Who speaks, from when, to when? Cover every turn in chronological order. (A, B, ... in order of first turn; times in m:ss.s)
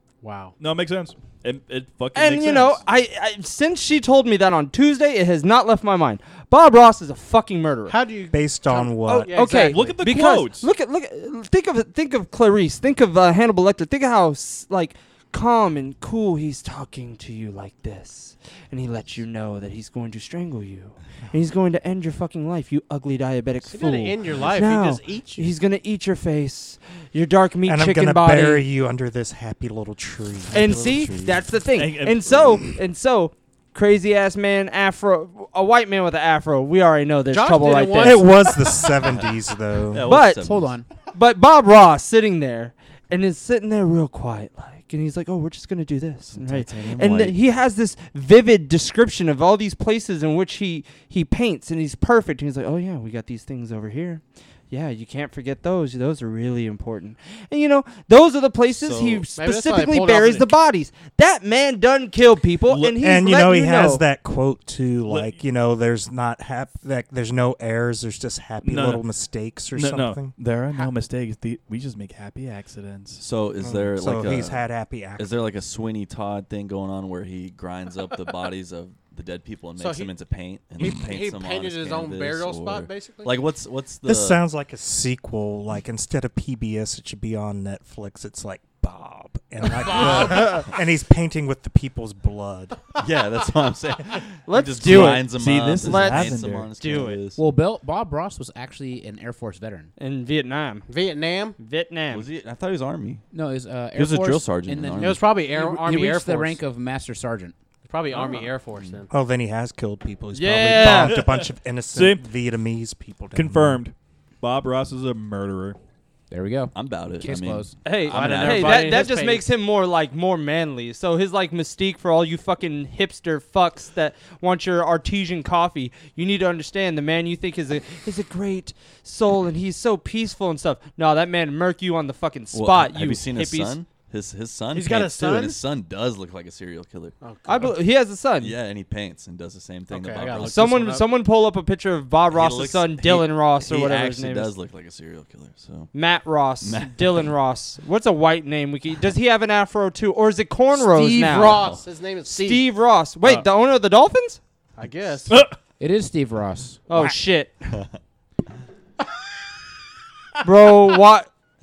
0:00.2-0:00.6 A
0:00.6-0:02.8 B
0:02.1-0:08.0 C
0:07.9-0:10.0 A
0:08.3-0:09.5 D
0:09.0-0:28.6 C
0:09.6-0:10.7 B
0:23.7-0:25.4 A
0:27.6-0:31.5 D
0:30.5-0:38.3 C
0:31.8-0:32.6 B
0:37.3-0:38.8 A
0:38.0-0:40.1 D
0:38.9-0:40.8 E
0:40.1-0:40.4 C
0:40.4-0:40.9 F
0:41.1-1:04.0 C
0:46.3-0:47.4 E
0:58.8-0:59.3 E
0:59.4-1:00.5 A
1:02.7-1:03.0 B
1:03.0-1:10.3 D
1:05.1-1:05.4 B
1:08.6-1:09.0 B
1:09.8-1:13.2 B
1:13.2-1:14.6 E
1:13.6-1:15.3 D
1:15.2-1:24.4 E
1:19.8-1:20.1 A
1:20.8-1:23.4 A
1:24.0-1:32.8 D
1:29.9-1:30.5 A
1:29.9-1:30.6 E
1:33.0-1:37.4 E
1:34.5-1:35.3 C
1:34.8-1:36.7 B
1:35.8-1:37.2 C
1:37.4-1:39.9 F
1:40.0-1:40.9 C
1:40.9-1:41.6 A
1:41.6-1:42.2 C
1:42.1-1:43.2 E
1:43.3-1:47.5 F
1:43.9-1:45.2 E
1:45.0-1:46.6 A
1:47.8-1:49.1 A
1:48.1-1:49.0 E
1:49.1-1:53.8 D
1:50.3-1:51.2 C
1:50.8-1:52.2 B
1:53.3-1:55.8 B
1:56.3-1:57.8 F
1:56.7-1:59.0 E
1:57.8-2:13.8 C
1:58.1-1:59.5 A
2:12.5-2:17.2 E
2:14.7-2:15.6 A
2:17.2-2:17.8 A
2:17.4-2:18.5 C
2:18.4-2:20.8 E
2:19.9-2:21.0 A
2:20.5-2:24.5 C
2:22.3-2:25.9 E
2:25.9-2:31.7 C
2:26.6-2:27.3 E
2:30.8-2:32.7 A
2:31.3-2:31.8 E
2:32.3-2:34.4 C
2:34.8-2:35.3 A
2:35.3-2:35.6 B
2:35.8-2:36.8 F
2:36.9-2:37.7 C
2:40.4-2:41.3 C